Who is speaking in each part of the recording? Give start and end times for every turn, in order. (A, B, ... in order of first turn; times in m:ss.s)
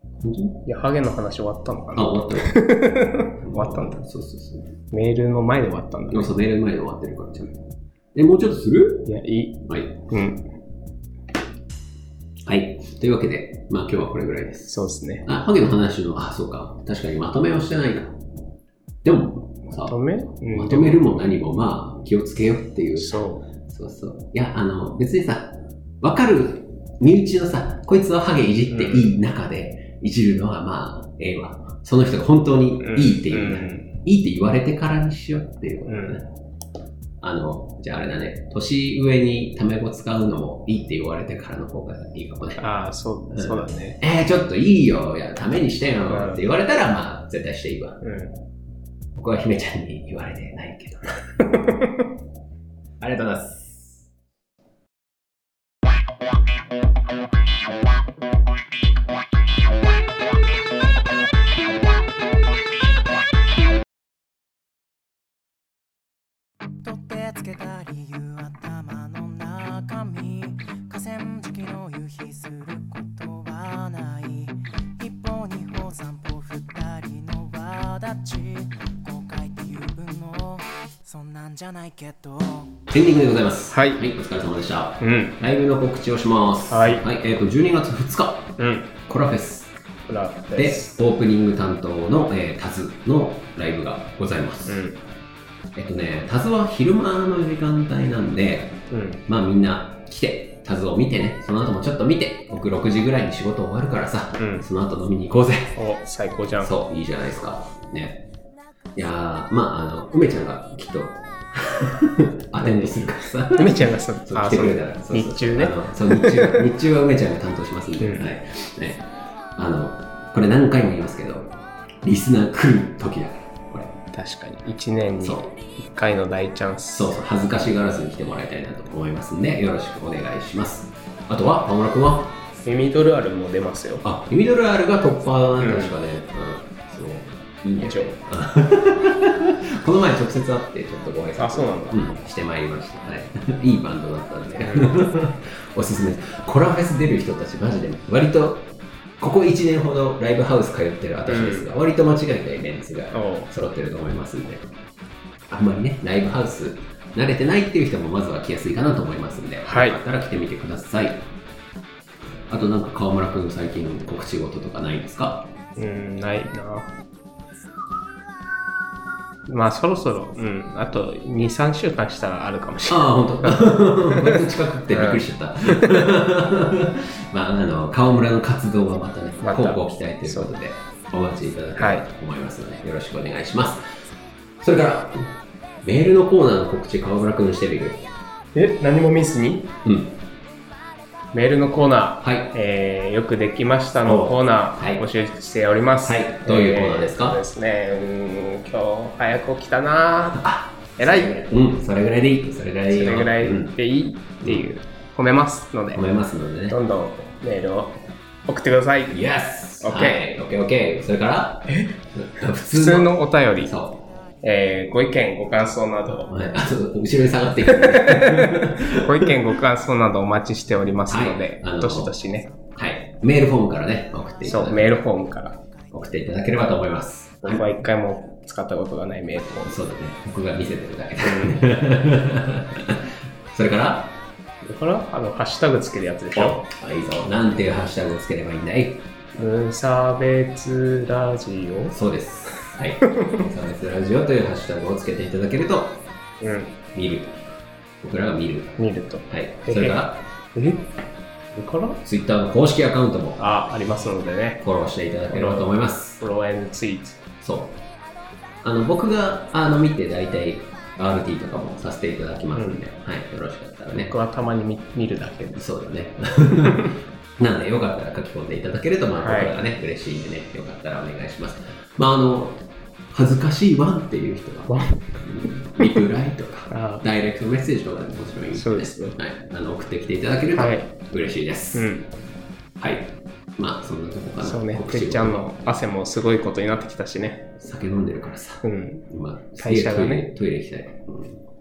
0:00.2-0:00.6 A
0:00.6-0:04.0 B
0:01.9-0:02.6 A
0:03.4-0:04.7 A
0:04.9-0:06.3 B
0:06.1-0:07.6 A
0:08.1-0:09.1 A
0:09.1-0:10.4 B
0:09.7-0:09.9 A
0:12.4-0:14.7 A
0:14.6-0:15.3 B
0:15.2-0:18.1 A
0:19.0-0:20.0 A
0:19.8-0:21.0 B
0:20.5-0:36.2 A
0:23.0-0:23.5 B
0:28.7-0:29.1 B
0:32.8-0:33.9 B
0:35.9-0:36.2 B
0:37.2-0:42.7 A
0:42.6-0:44.0 B
0:43.3-0:48.0 A
0:46.1-0:46.4 B
0:48.0-0:48.3 B
0:49.1-0:51.2 A
0:51.4-0:52.0 B
0:53.0-0:54.1 A
1:06.8-1:22.9 C
1:22.9-1:29.7 A
1:23.7-1:24.0 B
1:25.0-1:25.4 B
1:26.7-1:27.1 B
1:28.6-1:28.9 B
1:30.1-1:30.9 B
1:30.6-1:34.8 A
1:34.7-1:35.0 B
1:35.8-1:45.8 A
1:38.9-1:39.2 B
1:44.4-1:44.6 B
1:45.8-1:46.8 B
1:46.6-1:48.3 A
1:48.9-2:04.0 A
1:52.6-1:53.0 B
1:53.5-1:56.6 B
1:58.0-1:58.3 B
2:04.1-2:07.1 B
2:05.2-2:05.5 A
2:06.9-2:12.4 A
2:12.6-2:14.1 B
2:14.0-2:34.6 A
2:15.6-2:15.9 B
2:17.8-2:18.2 B
2:21.4-2:22.1 B
2:24.6-2:25.0 B
2:31.3-2:31.7 B
2:33.1-2:33.5 B
2:35.5-2:41.3 A
2:39.6-2:40.0 B
2:42.5-2:45.5 A
2:45.8-2:46.9 B
2:49.5-2:56.1 B
2:52.9-3:03.8 A
2:59.4-3:00.5 B
3:01.8-3:02.1 B
3:04.6-3:08.1 A
3:08.6-3:09.7 B
3:09.8-3:10.2 A
3:11.3-3:21.4 B
3:12.2-3:12.5 A
3:14.1-3:15.0 A
3:16.0-3:17.4 A
3:20.4-3:23.8 A
3:22.9-3:26.0 B
3:25.9-3:26.8 A
3:26.7-3:29.2 B
3:29.1-3:34.0 A
3:29.8-3:30.2 B
3:32.6-3:33.7 B
3:34.4-3:36.3 B
3:36.3-3:39.3 A
3:37.6-3:42.5 B
3:41.1-3:42.1 A
3:42.7-3:45.0 A
3:44.4-3:45.6 B
3:45.9-3:47.6 A
3:47.4-3:49.8 B
3:49.7-3:54.2 A
3:51.2-3:51.6 B
3:54.6-3:56.7 B
3:56.4-3:59.1 A
3:59.4-4:02.0 B
4:01.9-4:06.1 A
4:02.5-4:03.4 B
4:06.4-4:06.8 B
4:06.9-4:07.4 A
4:08.0-4:10.2 A
4:08.8-4:10.9 B
4:11.5-4:12.0 B
4:12.0-4:13.4 A
4:13.4-4:14.6 B
4:14.6-4:16.2 A
4:15.3-4:17.2 B
4:17.4-4:17.8 A
4:18.6-4:24.1 A
4:22.6-4:22.8 B
4:23.9-4:25.6 B
4:25.6-4:41.9 A
4:26.6-4:26.9 B
4:29.2-4:29.6 B
4:34.7-4:35.2 B
4:36.7-4:37.0 B
4:38.5-4:39.2 B
4:40.5-4:40.9 B
4:41.7-4:42.1 B
4:42.8-4:45.6 A
4:44.4-4:47.5 B
4:47.6-4:51.4 A
4:48.6-4:49.1 B
4:49.6-4:50.3 B